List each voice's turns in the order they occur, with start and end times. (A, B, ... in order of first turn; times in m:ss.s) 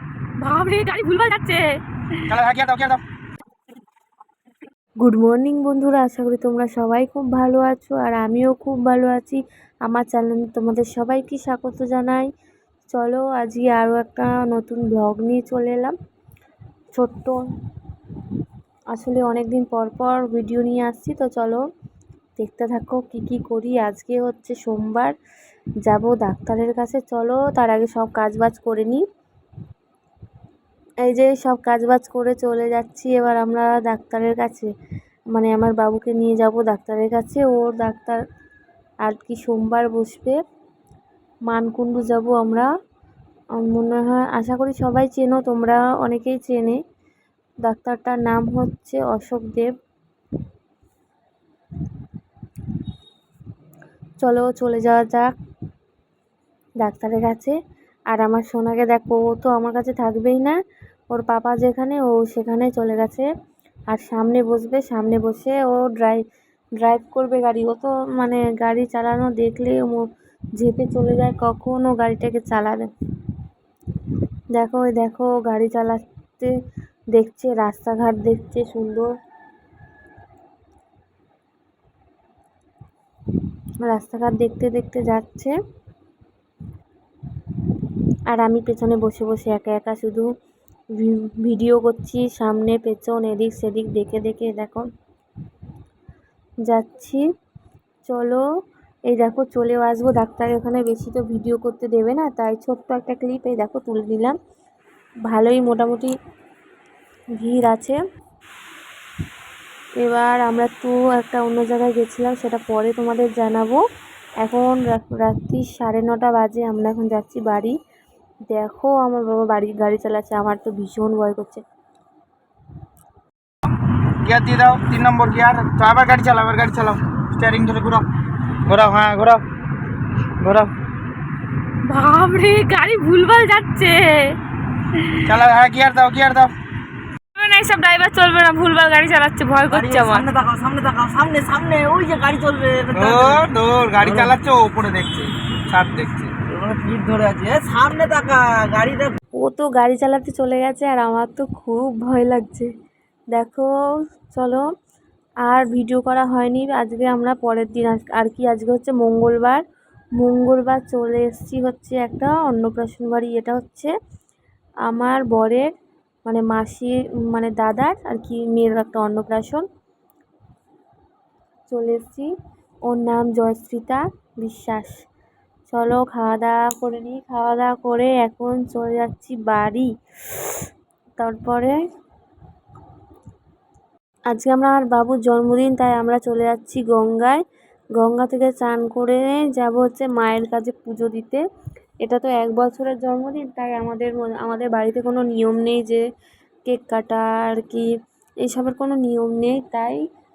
0:00.4-0:02.4 A
0:02.3-0:03.0 B
0:05.0-0:12.3 C
0:12.9-0:16.0 C
0:16.9-0:17.4 C
0:18.9-0:21.6 C
0:22.4-0:25.2 C
0:25.8-0:29.0 C
0:31.0-0:34.7 C
0:35.3-0:38.2 C
0:39.0-0:40.4 C
0:41.5-0:42.7 C
0:43.6-0:46.8 C
0:47.6-0:49.7 C
0:54.2-0:55.3 C
0:56.8-0:57.6 C
0:58.1-1:00.6 C
1:01.1-1:03.3 C
1:03.9-1:06.2 C
1:06.8-1:10.0 C
1:10.6-1:12.9 C
1:14.5-1:16.5 C
1:17.1-1:19.1 C
1:23.8-1:25.6 C
1:28.3-1:30.3 C
1:31.0-1:34.9 C
1:36.7-1:37.2 C
1:38.1-1:38.4 C
1:39.1-1:44.4 C
1:45.3-1:46.1 C
1:47.4-1:48.0 C
1:50.0-1:53.8 C
1:54.4-1:57.8 C
1:58.5-2:01.6 C
2:04.2-2:08.0 B
2:08.7-2:09.4 B
2:10.4-2:10.7 B
2:11.9-2:14.3 A
2:15.3-2:16.5 B
2:17.4-2:20.3 A
2:19.7-2:23.5 D
2:22.9-2:26.3 B
2:24.0-2:24.4 D
2:26.5-2:29.2 D
2:29.4-2:32.7 C
2:33.3-2:33.7 C
2:34.3-2:34.7 C
2:35.5-2:39.6 C
2:40.2-2:43.9 C
2:44.9-2:45.7 C
2:46.3-2:49.6 C
2:51.7-2:52.3 C
2:52.9-2:55.0 C
2:55.7-2:59.9 C
3:01.2-3:01.8 C
3:04.3-3:07.4 C
3:08.0-3:11.4 C
3:12.0-3:16.0 C
3:16.7-3:17.9 C
3:18.4-3:20.0 C